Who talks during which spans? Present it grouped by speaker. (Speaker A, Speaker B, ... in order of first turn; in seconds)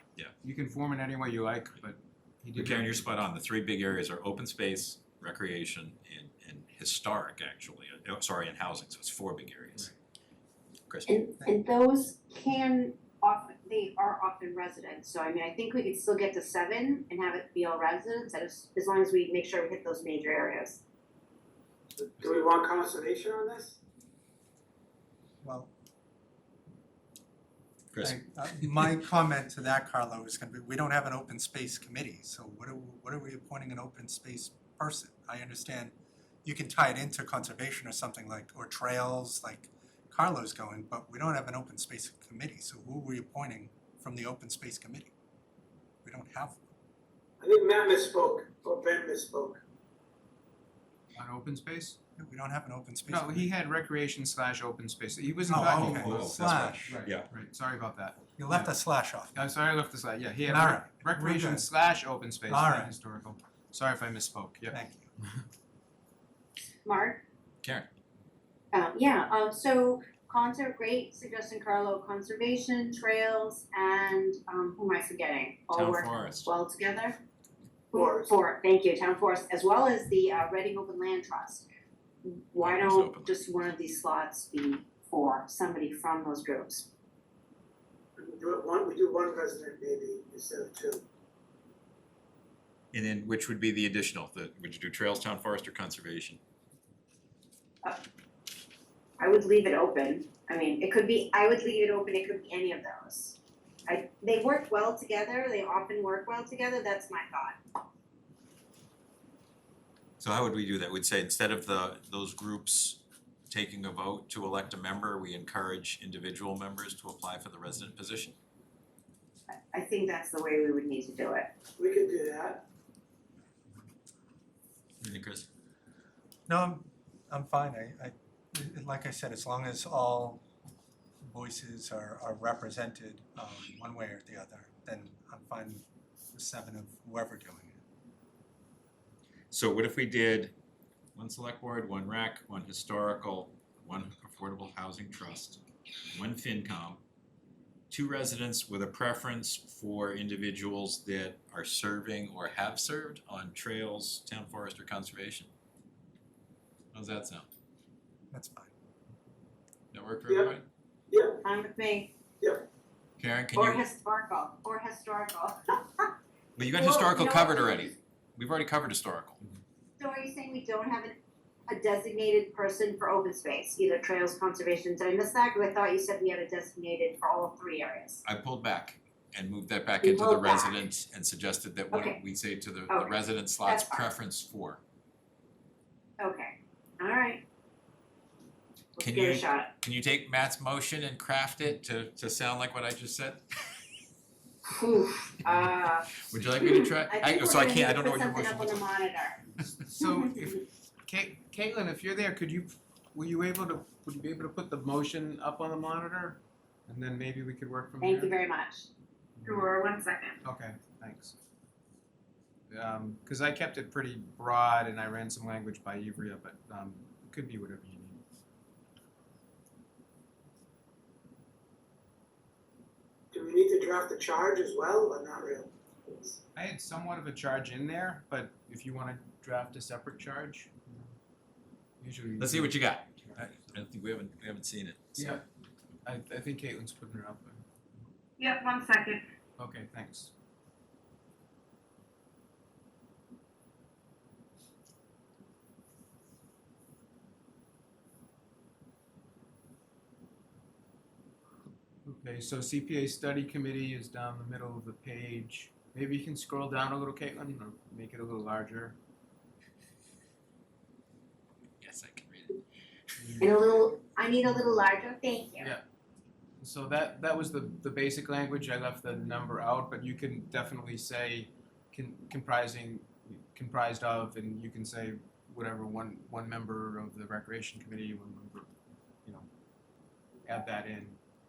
Speaker A: 0.4-3.2, 51.2-52.0, 53.1-58.7, 59.3-65.4, 199.8-208.3, 209.4-209.7, 210.4-211.3, 212.7-218.2, 226.6-231.1, 232.0-233.8, 235.2-235.4, 236.1-237.7, 239.6-240.3, 252.1-259.0, 263.2-263.6, 266.6-278.7, 280.5-281.2
Speaker B: 2.5-9.9, 10.9-11.2, 27.9-28.2, 55.6-57.3, 75.7-76.5, 82.6-83.4, 92.9-96.4, 110.2-118.4, 125.0-125.5, 139.5-140.5, 141.2-147.0, 147.9-155.5, 156.9-157.5, 159.9-160.6, 163.2-163.8, 166.6-169.4, 178.2-184.8, 189.0-193.4, 196.2-199.0, 232.4-235.4, 261.8-262.6
Speaker C: 11.1-20.8, 66.8-67.2, 68.7-77.2, 77.9-81.7, 82.2-86.9, 99.2-107.6, 119.5-121.5, 161.4-162.1, 163.5-167.9, 170.0-171.2, 171.7-178.2, 180.0-180.9, 181.9-182.2, 182.9-184.1, 186.2-187.4, 189.0-189.7, 194.7-199.4, 200.0-200.5, 208.0-208.9, 209.5-210.4, 238.4-239.2, 263.4-265.7
Speaker D: 11.4-11.7, 25.4-25.7, 28.1-45.1, 46.0-46.6, 52.2-53.5, 55.5-57.0, 58.4-59.4, 60.4-61.7, 62.5-62.9, 64.7-65.1, 126.5-130.4, 131.3-137.8, 158.3-158.7
Speaker E: 22.0-23.8, 47.4-49.6, 77.9-78.4, 88.2-91.0, 121.8-122.7, 160.3-160.5, 161.1-161.4, 162.4-162.7, 223.3-226.4